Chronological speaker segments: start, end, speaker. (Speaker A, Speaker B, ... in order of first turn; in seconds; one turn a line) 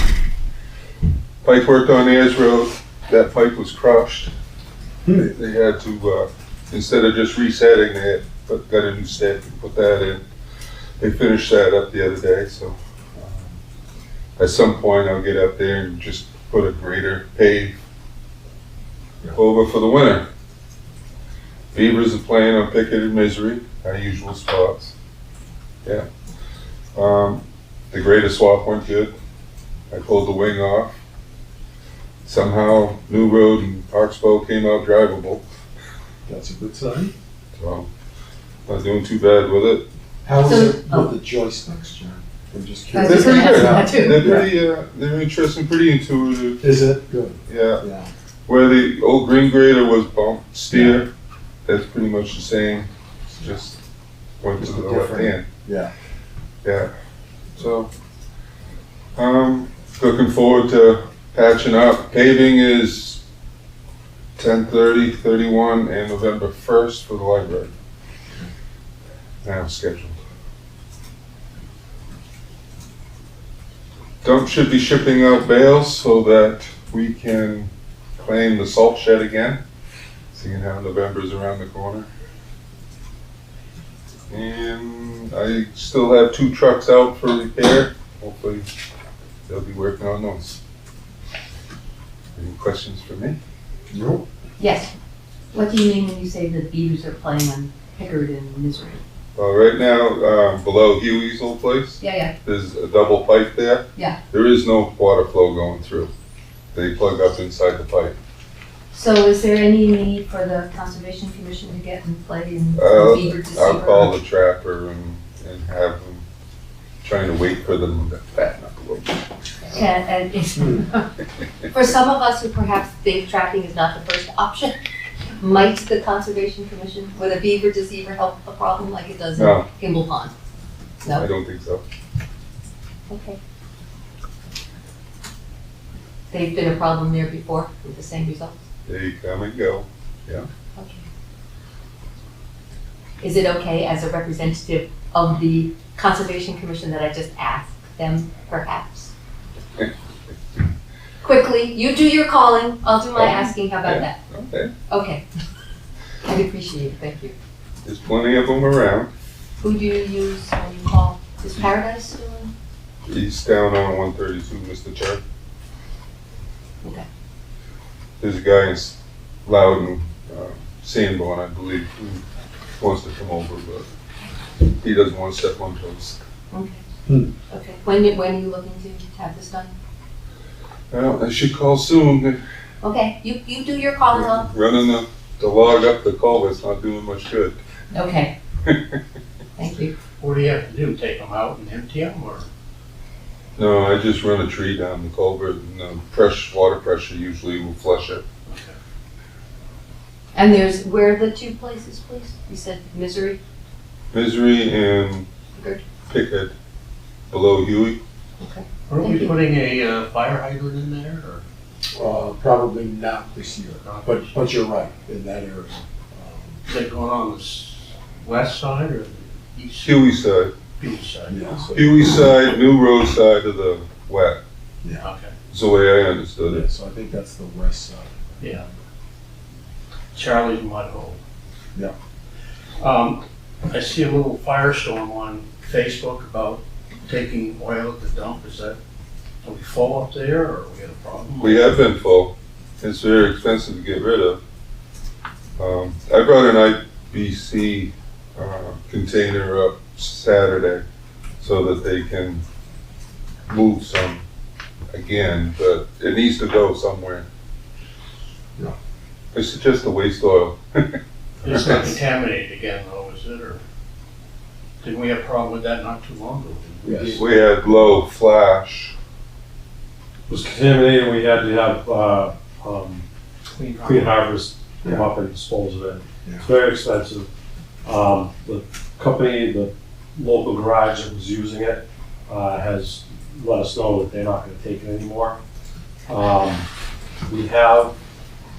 Speaker A: 1.4-4.3
Speaker B: 5.0-5.3
Speaker A: 5.3-10.2
Speaker A: 11.0-13.4
Speaker A: 14.4-17.8
Speaker A: 19.3-20.2
Speaker A: 21.7-24.9
Speaker A: 26.9-29.1
Speaker A: 29.9-30.9
Speaker A: 32.2-35.4
Speaker B: 36.3-37.1
Speaker A: 37.6-37.9
Speaker A: 38.7-39.8
Speaker B: 40.2-44.5
Speaker C: 40.4-41.1
Speaker C: 42.9-44.3
Speaker A: 43.0-46.6
Speaker B: 46.6-48.1
Speaker A: 47.5-47.8
Speaker A: 48.5-51.1
Speaker B: 50.7-51.0
Speaker A: 51.7-52.9
Speaker A: 53.4-53.8
Speaker A: 54.4-55.5
Speaker B: 54.6-55.9
Speaker A: 56.6-56.9
Speaker A: 57.5-57.9
Speaker A: 59.2-63.2
Speaker A: 64.4-67.7
Speaker A: 69.4-70.2
Speaker A: 74.2-79.6
Speaker A: 80.3-82.1
Speaker A: 84.3-88.7
Speaker A: 89.5-90.6
Speaker A: 92.4-93.4
Speaker B: 93.9-94.2
Speaker C: 94.6-94.9
Speaker C: 95.5-99.0
Speaker A: 99.4-106.1
Speaker C: 102.0-102.3
Speaker A: 106.7-108.2
Speaker C: 108.9-114.1
Speaker A: 112.8-116.2
Speaker A: 117.0-119.2
Speaker C: 119.6-121.1
Speaker C: 121.7-124.8
Speaker C: 125.4-130.3
Speaker A: 129.3-129.7
Speaker A: 131.1-131.8
Speaker C: 133.1-133.4
Speaker C: 136.3-138.6
Speaker A: 138.8-140.5
Speaker C: 140.8-141.1
Speaker C: 143.2-149.1
Speaker C: 151.2-154.2
Speaker A: 153.2-154.7
Speaker C: 154.9-155.2
Speaker C: 156.2-157.3
Speaker A: 157.8-159.1
Speaker C: 159.6-162.5
Speaker A: 163.1-165.2
Speaker A: 168.2-172.2
Speaker A: 172.8-173.9
Speaker A: 174.8-176.2
Speaker C: 176.5-176.8
Speaker C: 177.5-179.7
Speaker A: 180.9-182.4
Speaker C: 182.8-184.5
Speaker A: 184.1-187.6
Speaker C: 187.9-188.3
Speaker C: 189.6-189.9
Speaker D: 190.2-192.5
Speaker A: 193.6-198.2
Speaker D: 198.5-198.8
Speaker C: 200.3-203.4
Speaker A: 204.1-205.2
Speaker A: 206.1-206.5
Speaker A: 207.3-208.0
Speaker C: 208.4-209.3
Speaker D: 208.9-211.4
Speaker B: 211.9-216.6
Speaker D: 213.8-214.3
Speaker D: 216.7-220.2
Speaker A: 219.8-220.5
Speaker D: 220.8-221.4
Speaker B: 221.3-222.1
Speaker A: 221.7-224.4
Speaker D: 225.0-225.3
Speaker A: 225.5-226.7
Speaker B: 226.5-228.7
Speaker D: 228.4-228.7
Speaker D: 230.1-231.2
Speaker D: 232.8-238.8
Speaker D: 239.4-241.7
Speaker A: 241.4-244.4
Speaker A: 245.6-250.8
Speaker A: 251.4-252.4
Speaker A: 253.5-254.2
Speaker A: 254.9-257.2
Speaker A: 259.3-262.0
Speaker D: 261.4-263.6
Speaker D: 264.8-267.2
Speaker B: 266.8-267.2
Speaker A: 267.1-268.9
Speaker E: 270.3-273.1
Speaker D: 273.5-274.2
Speaker E: 273.8-277.3
Speaker B: 274.8-275.1
Speaker E: 277.9-285.4
Speaker E: 286.1-286.6
Speaker E: 287.3-287.9